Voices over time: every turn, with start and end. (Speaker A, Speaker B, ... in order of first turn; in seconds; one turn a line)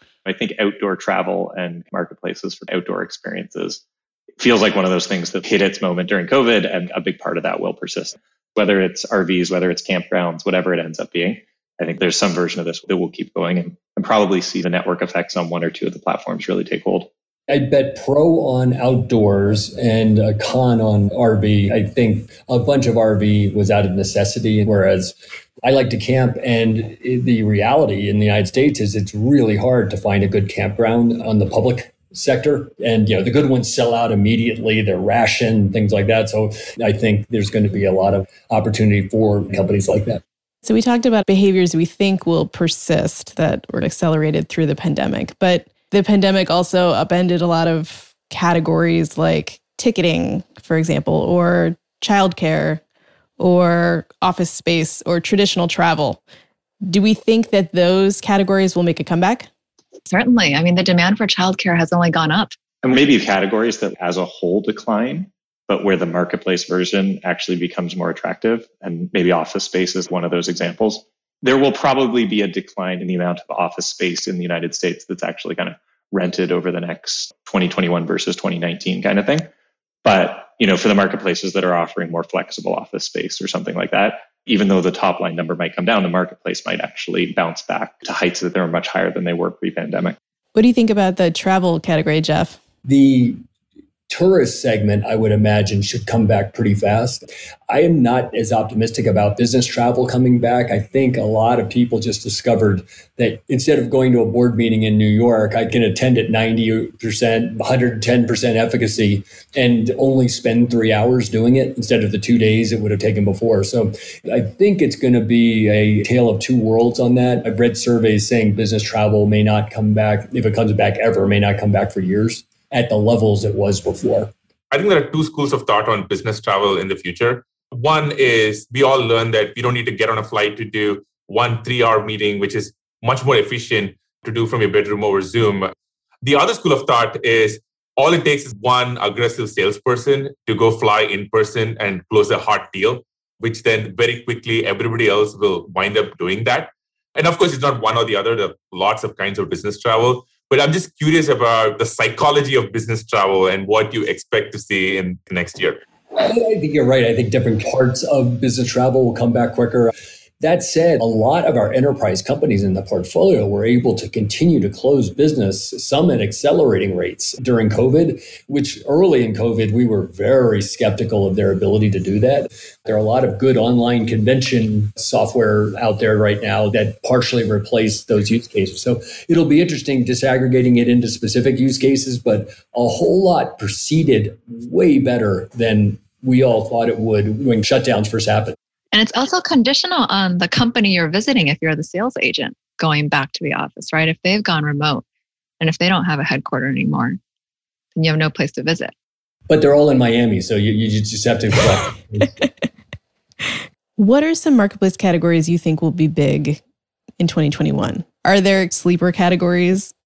Speaker A: 0.2-3.8
Speaker A: 4.4-17.1
Speaker B: 17.5-40.2
Speaker C: 40.6-52.8
Speaker C: 53.4-56.2
Speaker C: 56.9-59.5
Speaker D: 60.1-62.5
Speaker A: 62.8-79.5
Speaker A: 80.0-90.2
Speaker C: 90.5-92.6
Speaker B: 92.8-93.4
Speaker B: 94.1-124.3
Speaker E: 124.7-135.7
Speaker E: 136.2-155.8
Speaker B: 156.1-188.6
Speaker D: 188.9-195.0
Speaker D: 195.6-197.2
Speaker D: 197.9-198.9
Speaker B: 199.5-202.3
Speaker C: 204.0-206.6
Speaker C: 207.2-209.9